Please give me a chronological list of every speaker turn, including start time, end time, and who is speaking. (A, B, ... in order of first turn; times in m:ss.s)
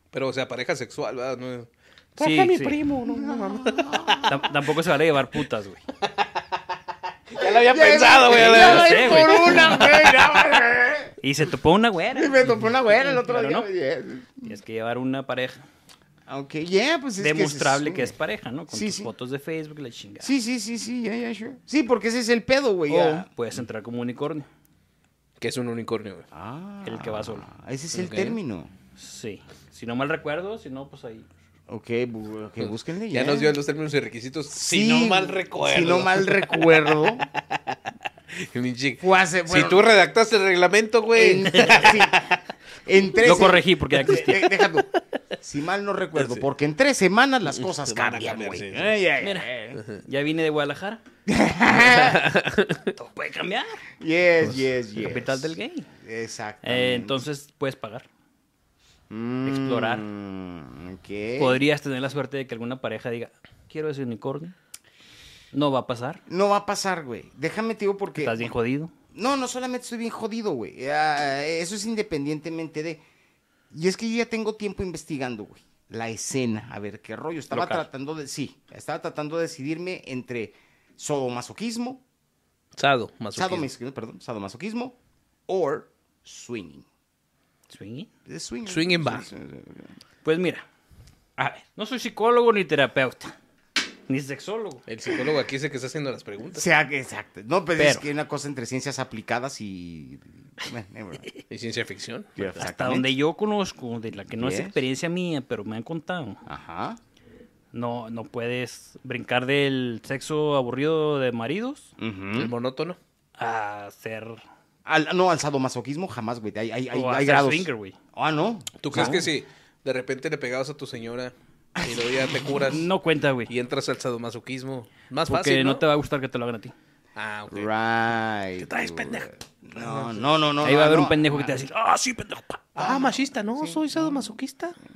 0:00.1-0:04.5 A
0:02.2-0:02.8 B
0:03.0-0:04.3 C
0:04.2-0:05.8 B
0:07.3-0:10.3 A
0:07.4-0:11.2 C
0:08.3-0:10.0 B
0:11.2-0:13.7 B
0:12.1-0:14.5 C
0:14.4-0:15.6 B
0:16.3-0:18.1 C
0:17.2-0:20.3 B
0:18.7-0:19.1 C
0:20.2-0:23.3 C
0:22.9-0:24.4 B
0:25.4-0:26.2 A
0:26.3-0:28.7 C
0:26.8-0:27.4 B
0:27.9-0:28.4 A
0:29.0-0:31.3 B
0:31.7-0:33.6 C
0:32.6-0:37.8 A
0:34.5-0:37.2 C
0:38.3-0:42.3 A
0:39.0-0:39.8 C
0:41.1-0:44.9 C
0:43.2-0:44.5 B
0:44.4-0:44.7 A
0:45.4-0:49.8 C
0:46.2-0:46.4 A
0:47.5-0:48.9 A
0:49.2-0:51.0 B
0:51.2-0:52.3 C
0:51.7-0:52.9 A
0:52.9-0:53.8 B
0:54.0-0:57.2 C
0:55.0-0:55.9 B
0:56.6-0:58.0 B
0:59.1-1:01.6 C
0:59.4-1:00.1 B
1:01.4-1:04.5 B
1:05.5-1:06.2 B
1:06.3-1:08.5 C
1:08.2-1:08.9 B
1:09.1-1:13.0 C
1:13.7-1:22.0 C
1:17.5-1:17.9 B
1:22.8-1:23.7 A
1:23.4-1:25.0 C
1:25.5-1:26.9 C
1:27.7-1:28.1 B
1:28.2-1:29.9 C
1:28.6-1:29.3 A
1:30.2-1:30.6 B
1:31.4-1:31.6 C
1:31.8-1:33.4 B
1:34.1-1:34.8 B
1:34.9-1:36.6 A
1:36.5-1:41.3 C
1:37.8-1:38.0 B
1:41.5-1:42.5 A
1:42.4-1:43.1 C
1:42.6-1:46.4 B
1:44.4-1:44.8 C
1:46.5-1:47.0 C
1:47.7-1:51.9 B
1:52.0-1:52.5 C
1:52.4-1:53.0 A
1:53.4-1:54.4 B
1:54.9-1:59.2 C
1:56.9-1:58.0 B
1:58.8-2:02.9 A
1:58.9-1:59.3 B
2:01.8-2:02.6 C
2:02.7-2:03.5 B
2:03.5-2:05.8 A
2:05.2-2:06.7 B
2:07.1-2:07.7 A
2:07.5-2:11.5 C
2:08.6-2:10.3 A
2:10.6-2:12.7 B
2:12.7-2:14.8 A
2:12.8-2:14.3 C